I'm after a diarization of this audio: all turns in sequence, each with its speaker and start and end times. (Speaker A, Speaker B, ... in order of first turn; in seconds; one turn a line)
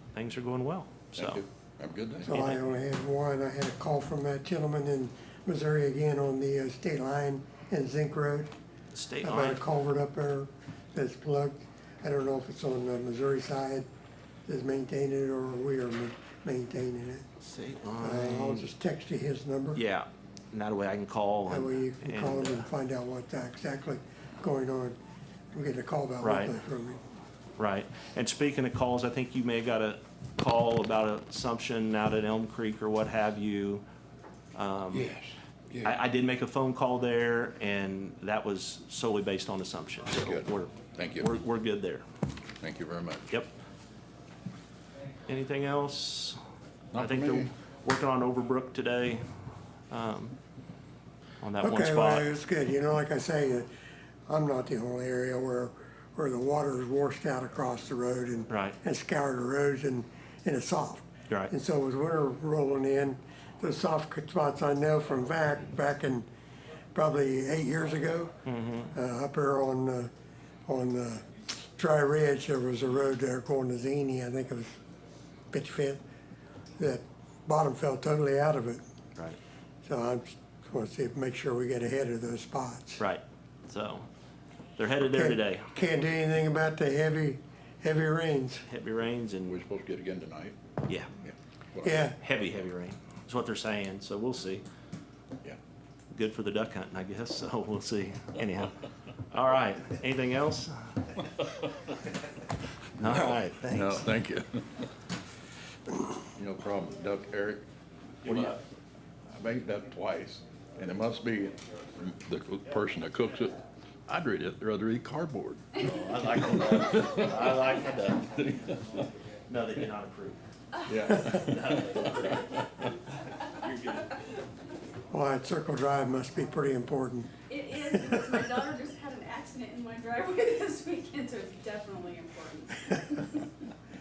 Speaker A: 0.1-1.4
Speaker B: 1.2-2.3
Speaker C: 2.2-8.5
Speaker A: 2.3-2.6
Speaker A: 8.9-9.6
Speaker C: 9.2-13.8
Speaker C: 14.4-17.2
Speaker A: 17.4-18.7
Speaker C: 18.0-19.8
Speaker A: 19.7-22.7
Speaker C: 21.5-24.9
Speaker C: 25.5-27.0
Speaker A: 26.2-26.5
Speaker A: 27.6-33.8
Speaker A: 34.5-35.1
Speaker B: 34.9-35.9
Speaker A: 35.8-42.0
Speaker B: 40.1-41.3
Speaker B: 42.6-43.3
Speaker A: 45.2-46.4
Speaker B: 46.9-47.5
Speaker A: 46.9-49.2
Speaker A: 49.9-50.4
Speaker A: 51.4-52.3
Speaker C: 51.6-53.7
Speaker C: 54.3-66.2
Speaker A: 58.5-58.7
Speaker C: 66.9-68.3
Speaker A: 68.5-68.9
Speaker C: 68.9-70.1
Speaker C: 70.7-74.7
Speaker C: 75.5-76.0
Speaker C: 76.8-78.8
Speaker C: 79.8-83.0
Speaker A: 83.0-84.1
Speaker A: 84.8-85.7
Speaker C: 85.2-88.6
Speaker A: 88.7-89.6
Speaker B: 89.5-90.5
Speaker A: 90.8-91.1
Speaker B: 91.2-91.9
Speaker C: 91.8-92.1
Speaker A: 92.0-94.6
Speaker A: 96.1-100.9
Speaker A: 103.0-104.1
Speaker B: 103.0-104.8
Speaker B: 106.3-107.6
Speaker A: 108.2-108.6
Speaker B: 108.2-108.6
Speaker B: 109.3-113.6
Speaker B: 114.1-115.8
Speaker A: 115.8-118.5
Speaker B: 116.5-117.3
Speaker B: 118.4-119.0
Speaker A: 119.5-120.4
Speaker B: 120.9-122.2
Speaker A: 121.0-122.6
Speaker A: 123.6-124.2
Speaker C: 125.1-127.3
Speaker D: 127.5-133.5